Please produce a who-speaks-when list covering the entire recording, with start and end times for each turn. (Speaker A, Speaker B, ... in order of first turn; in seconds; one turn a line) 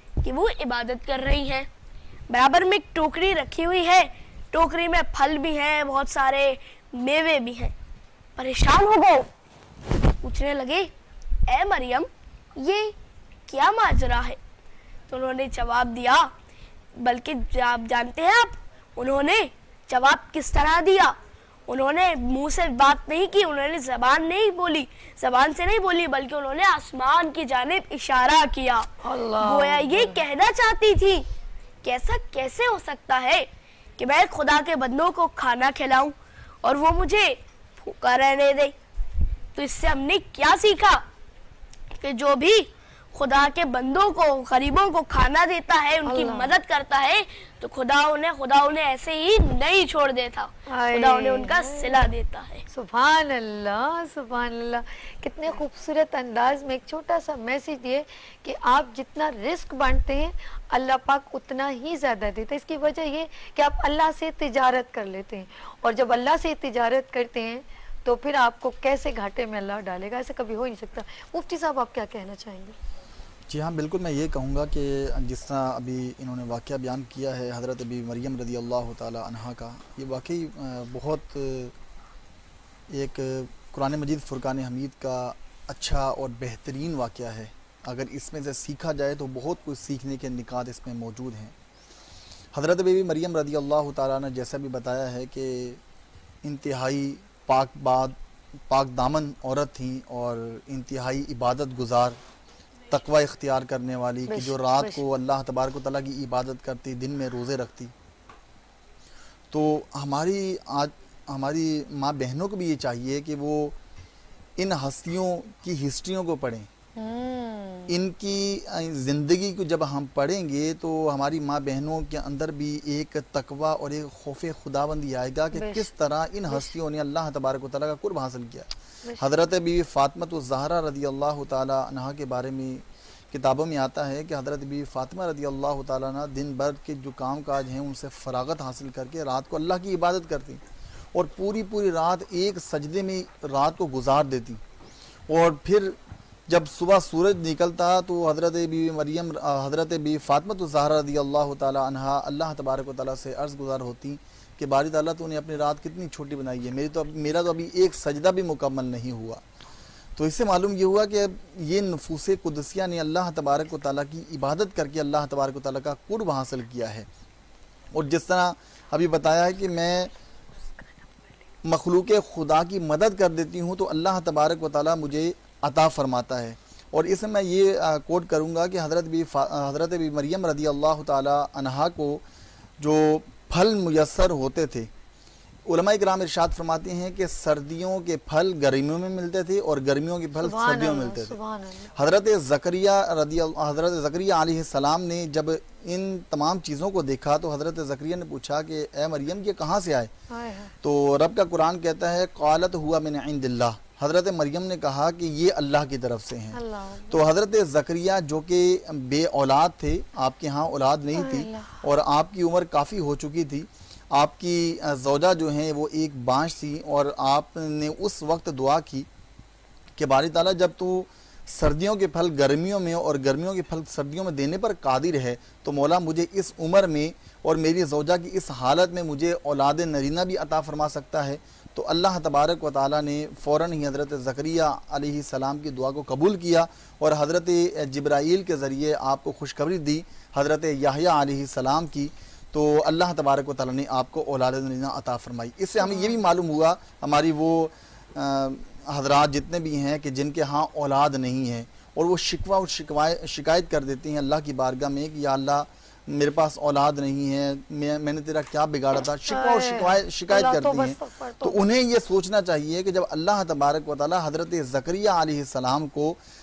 Speaker A: 0.2-1.7
Speaker A: 2.3-7.7
Speaker A: 8.3-9.3
Speaker A: 10.2-10.9
Speaker A: 11.5-12.9
Speaker A: 13.5-14.4
Speaker A: 15.1-16.3
Speaker A: 17.0-21.1
Speaker A: 21.7-28.9
Speaker B: 29.0-30.2
Speaker A: 29.4-31.2
Speaker A: 31.8-38.7
Speaker A: 39.5-41.0
Speaker A: 41.9-52.6
Speaker B: 46.0-46.5
Speaker B: 50.7-52.1
Speaker B: 52.7-72.7
Speaker C: 73.5-81.7
Speaker C: 82.9-91.5
Speaker C: 92.5-95.8
Speaker C: 96.4-98.2
Speaker C: 98.7-102.2
Speaker C: 102.9-107.9
Speaker B: 104.3-105.0
Speaker C: 109.5-113.8
Speaker C: 114.6-116.7
Speaker B: 117.0-118.0
Speaker C: 117.9-140.6
Speaker B: 125.5-125.9
Speaker B: 126.5-126.7
Speaker B: 129.0-129.3
Speaker C: 141.1-144.6
Speaker C: 145.3-159.4
Speaker C: 160.2-167.1
Speaker C: 167.9-170.1
Speaker C: 171.6-182.2
Speaker C: 182.8-184.9
Speaker C: 185.7-191.4
Speaker B: 190.4-191.9
Speaker C: 191.9-200.1
Speaker B: 200.3-200.7
Speaker C: 200.8-219.1
Speaker B: 206.5-207.2
Speaker B: 211.1-211.8
Speaker C: 220.0-266.2
Speaker B: 245.8-246.2
Speaker B: 259.2-261.6